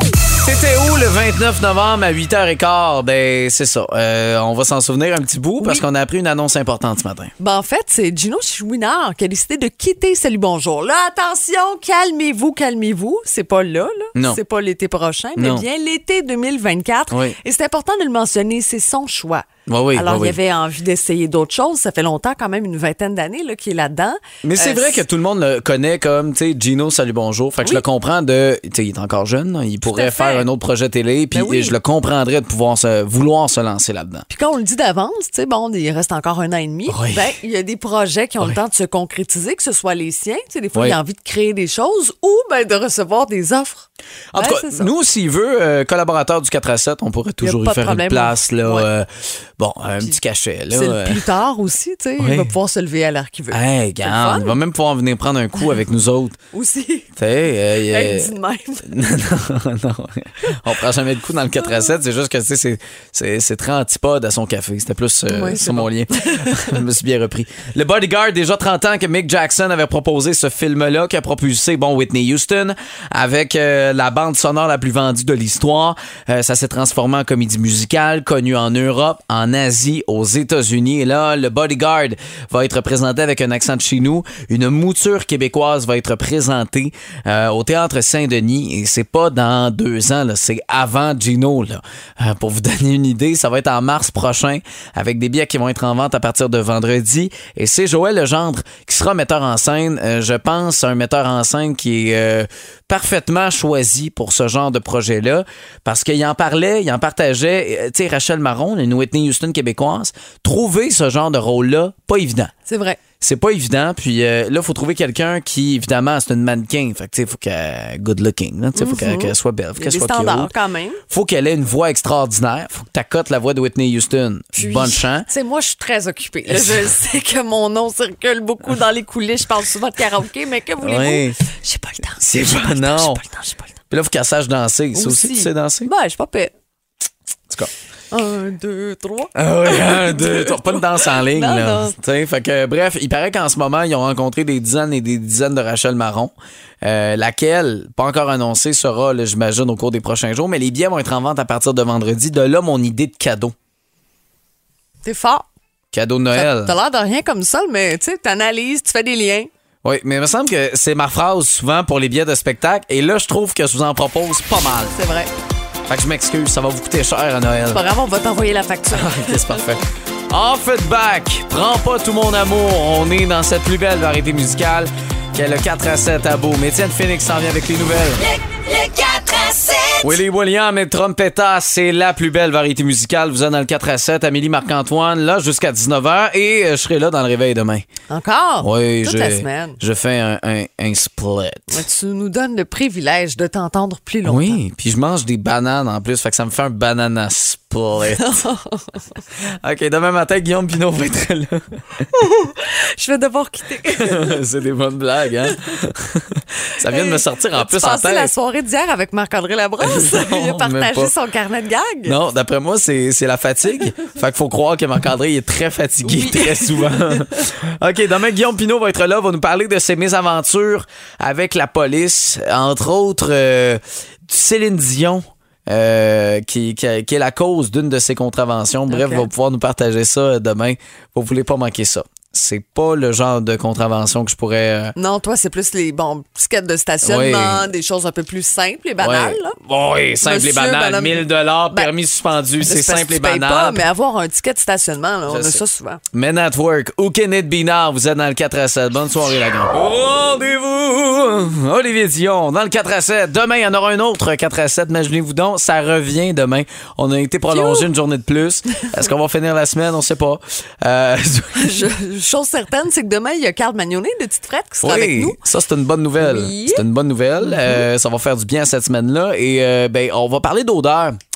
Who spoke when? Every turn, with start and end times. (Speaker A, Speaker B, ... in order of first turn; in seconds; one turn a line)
Speaker A: 0.4-7.3
Speaker B: 7.4-25.0
Speaker A: 14.1-14.4
Speaker A: 15.3-15.6
Speaker A: 17.1-17.4
Speaker A: 19.7-20.4
Speaker A: 24.4-34.3
Speaker B: 29.8-30.4
Speaker B: 31.3-31.7
Speaker B: 34.3-44.9
Speaker A: 36.9-37.4
Speaker A: 44.3-51.2
Speaker B: 47.4-48.9
Speaker B: 50.7-54.6
Speaker A: 52.2-52.5
Speaker A: 53.5-56.4
Speaker B: 56.5-57.1
Speaker A: 57.1-58.3
Speaker B: 57.8-58.9
Speaker A: 58.8-112.5
Speaker B: 65.3-66.8
Speaker B: 112.7-113.0
Speaker A: 113.2-120.5
Speaker B: 118.8-121.0
Speaker A: 121.1-125.3
Speaker B: 124.5-133.7
Speaker A: 126.5-126.9
Speaker A: 130.8-131.4
Speaker A: 132.2-133.2
Speaker A: 133.9-135.9
Speaker B: 134.9-136.5
Speaker B: 138.1-141.9
Speaker A: 139.3-153.5
Speaker B: 155.0-155.4
Speaker A: 155.9-156.7
Speaker B: 156.3-159.5
Speaker A: 159.8-164.9
Speaker B: 164.9-165.3
Speaker A: 165.9-167.8
Speaker B: 167.7-169.6
Speaker A: 168.9-178.2
Speaker C: 178.2-180.2
Speaker A: 180.0-187.8
Speaker B: 188.1-189.8
Speaker A: 188.6-191.8
Speaker B: 191.7-194.6
Speaker A: 194.2-198.3
Speaker B: 198.1-199.0
Speaker A: 199.4-202.0
Speaker B: 202.1-204.4
Speaker A: 203.8-208.3
Speaker B: 206.8-212.2
Speaker A: 209.8-211.1
Speaker A: 212.0-234.9
Speaker B: 216.0-217.4
Speaker B: 228.9-229.3
Speaker B: 234.9-239.6
Speaker A: 237.0-237.7
Speaker A: 239.0-243.8
Speaker B: 240.2-241.9
Speaker B: 242.6-246.0
Speaker A: 245.3-261.9
Speaker B: 257.5-257.9
Speaker B: 261.6-265.4
Speaker A: 264.8-271.2
Speaker B: 266.2-266.9